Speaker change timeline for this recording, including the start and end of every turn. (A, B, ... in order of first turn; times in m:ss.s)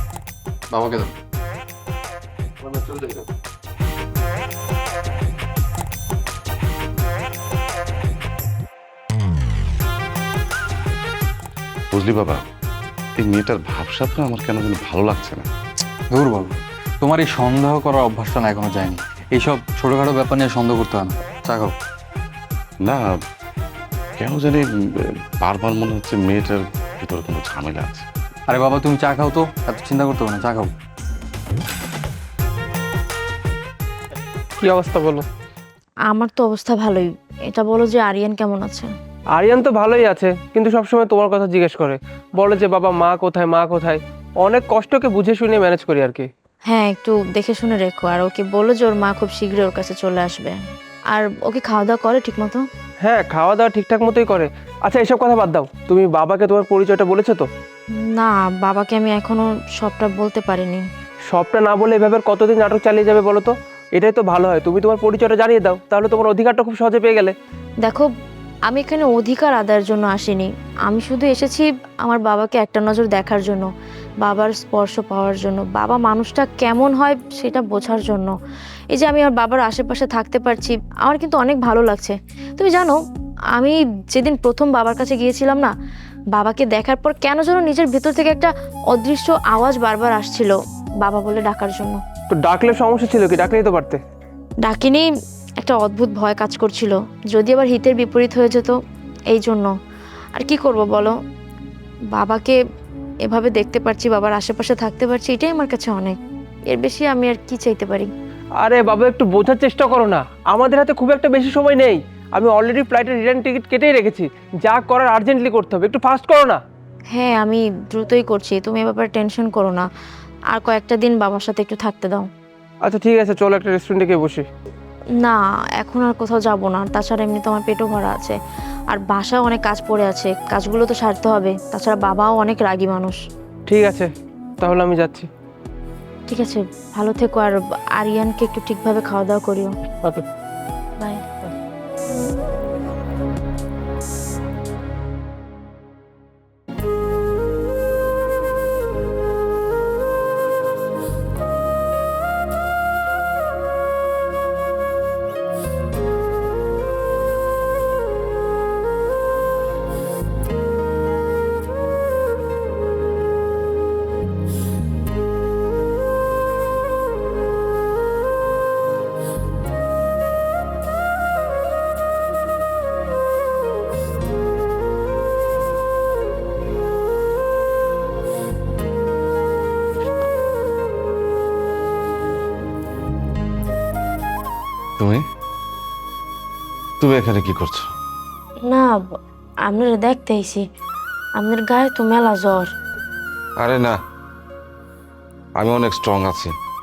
0:00.7-0:01.1 A
0:02.6-0:03.2 A
0:11.9-0:12.4 B
0:13.2-0:15.5 B
0:16.1-0:21.7 A
0:22.8-0:23.1 B
0:24.2-0:28.1 B
0:28.5-0:30.7 A
0:34.6-0:35.2 C
0:36.1-0:38.9 D
0:39.4-0:46.3 C
0:46.7-0:50.6 D
0:51.1-0:52.7 D
0:53.0-0:57.5 C
0:57.9-1:00.9 D
1:01.3-1:07.3 C
1:07.8-1:08.1 D
1:08.7-1:13.7 D
1:14.2-1:18.4 D
1:18.9-1:23.0 D
1:23.5-1:25.7 D
1:26.3-1:32.0 D
1:32.3-1:34.0 C
1:34.6-1:35.1 D
1:35.6-1:38.7 D
1:39.3-1:39.7 D
1:40.3-1:41.1 D
1:42.1-1:42.6 D
1:43.2-1:48.1 D
1:48.6-1:56.6 C
1:57.1-1:59.9 D
2:00.5-2:02.3 D
2:02.8-2:04.5 C
2:05.2-2:08.4 D
2:08.9-2:13.2 D
2:13.7-2:14.1 C
2:14.6-2:15.3 C
2:16.3-2:19.7 D
3:05.0-3:05.2 B
3:07.0-3:07.9 B
3:08.6-3:09.0 D
3:09.6-3:10.6 D
3:11.4-3:12.7 D
3:13.6-3:14.0 B
3:15.6-3:16.5 B